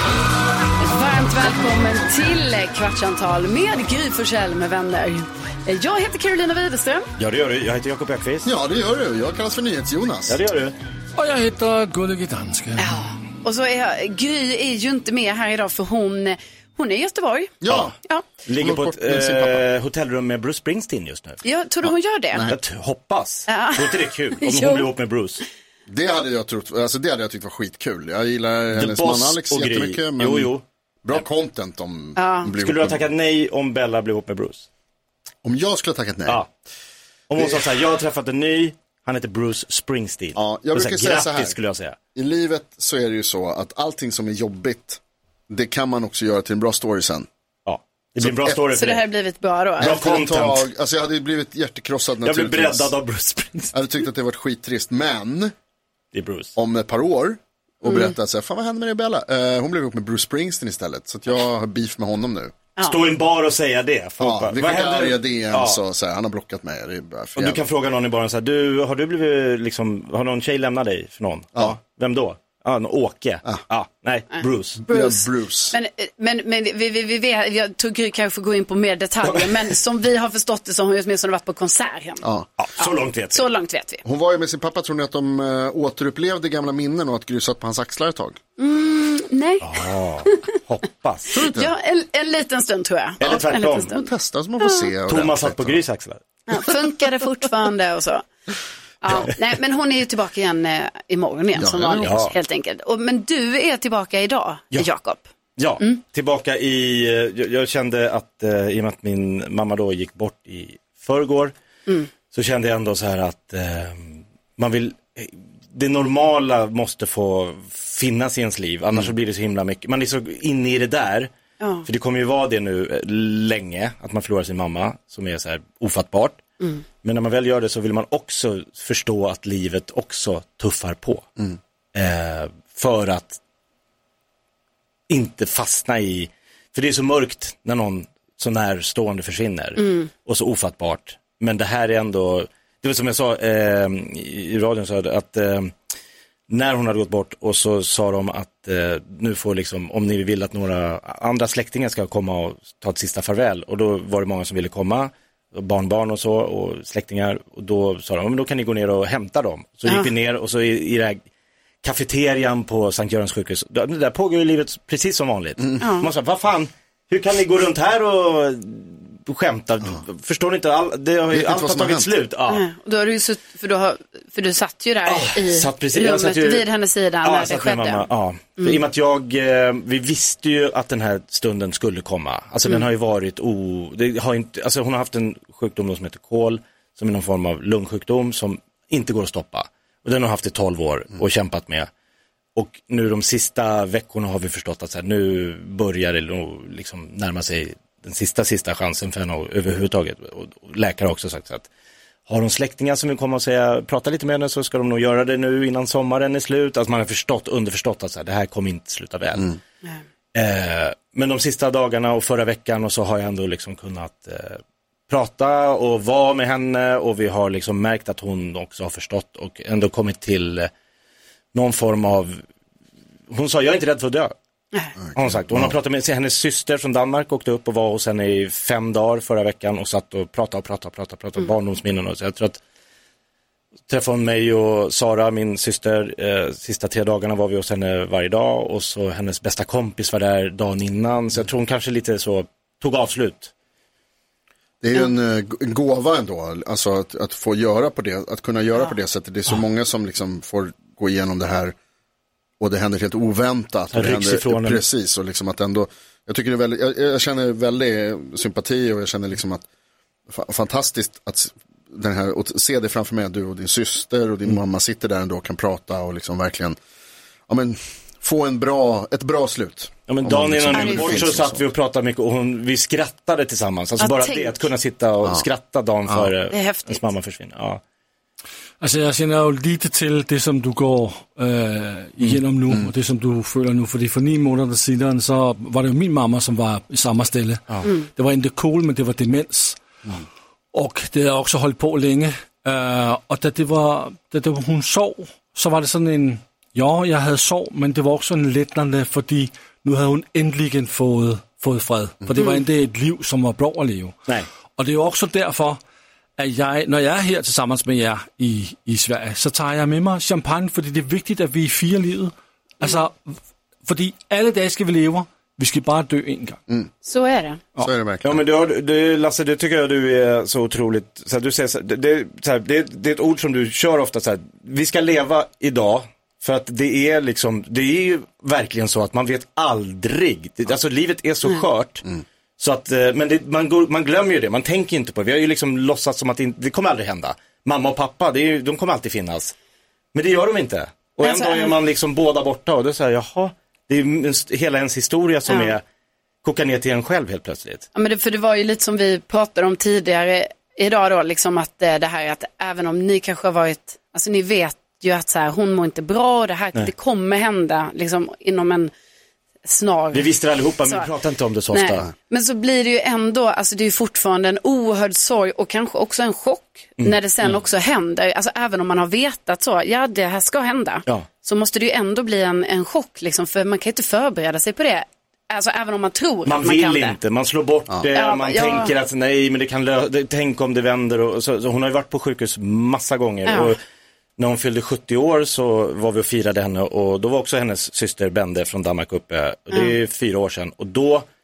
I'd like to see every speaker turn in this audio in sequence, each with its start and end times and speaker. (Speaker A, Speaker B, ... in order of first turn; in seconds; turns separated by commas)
Speaker A: 0.8-7.1, Speaker B: 7.2-8.5, Speaker C: 8.4-10.4, Speaker B: 10.3-10.8, Speaker D: 11.2-12.9, Speaker A: 12.8-18.2, Speaker C: 17.6-17.9, Speaker B: 17.7-21.4, Speaker C: 18.6-19.6, Speaker A: 21.4-22.5, Speaker C: 21.8-22.6, Speaker B: 22.4-25.4, Speaker A: 23.5-24.9, Speaker C: 25.9-33.1, Speaker B: 28.8-31.2, Speaker A: 32.2-32.5, Speaker B: 32.6-34.7, Speaker C: 35.4-36.4, Speaker B: 37.3-42.0, Speaker C: 37.4-37.8, Speaker C: 40.4-41.6, Speaker C: 42.1-47.3, Speaker B: 47.7-49.0, Speaker C: 48.2-48.6, Speaker A: 48.7-50.2, Speaker B: 49.8-50.7, Speaker C: 49.8-52.9, Speaker B: 52.2-53.8, Speaker C: 53.7-55.5, Speaker B: 56.1-56.5, Speaker C: 56.6-62.5, Speaker A: 57.9-58.1, Speaker B: 62.8-65.8, Speaker C: 64.2-67.6, Speaker B: 67.4-74.8, Speaker C: 74.8-75.8, Speaker A: 74.9-82.2, Speaker C: 82.2-82.5, Speaker B: 82.6-83.5, Speaker A: 82.8-84.0, Speaker C: 84.0-88.4, Speaker A: 88.6-90.5, Speaker B: 89.6-91.4, Speaker C: 91.3-91.7, Speaker A: 91.4-94.1, Speaker B: 93.2-93.9, Speaker C: 93.9-95.8, Speaker A: 94.6-94.9, Speaker B: 95.1-96.2, Speaker A: 96.5-98.3, Speaker A: 99.0-105.3, Speaker C: 101.5-102.3, Speaker B: 102.0-102.3, Speaker B: 105.6-111.5, Speaker B: 112.3-121.3, Speaker A: 121.6-121.9, Speaker B: 121.8-126.4, Speaker B: 127.0-131.3, Speaker B: 131.9-133.4, Speaker B: 135.1-145.7, Speaker B: 146.5-161.2, Speaker B: 161.8-172.7, Speaker C: 165.6-165.8, Speaker A: 165.8-166.1, Speaker C: 171.3-172.1, Speaker A: 172.5-178.1, Speaker B: 175.1-176.7, Speaker B: 177.2-191.9, Speaker B: 192.6-201.7, Speaker B: 202.3-209.6, Speaker B: 210.3-220.7, Speaker B: 221.5-222.4, Speaker B: 223.3-224.3, Speaker C: 225.1-225.8, Speaker B: 225.2-232.6, Speaker B: 233.9-243.5, Speaker C: 244.8-251.7, Speaker C: 252.6-259.6, Speaker B: 253.9-254.8, Speaker C: 260.3-266.8, Speaker C: 267.5-271.6, Speaker B: 270.1-277.8, Speaker A: 270.7-271.3, Speaker A: 274.0-274.6, Speaker A: 276.5-277.1, Speaker D: 278.8-289.8, Speaker D: 290.7-304.2, Speaker D: 304.8-305.8, Speaker D: 306.4-316.6, Speaker A: 317.0-317.6, Speaker C: 317.8-318.4, Speaker B: 318.2-332.1, Speaker B: 332.6-339.5, Speaker B: 340.1-345.8, Speaker A: 341.2-341.8, Speaker A: 345.5-345.8, Speaker B: 346.4-347.9, Speaker A: 347.9-358.9, Speaker A: 359.6-360.3, Speaker B: 360.1-362.1, Speaker A: 360.8-361.1, Speaker A: 361.7-377.2, Speaker B: 367.0-367.5, Speaker B: 376.4-383.8, Speaker A: 378.1-378.9, Speaker A: 383.5-383.8, Speaker B: 384.4-391.3, Speaker A: 389.7-390.0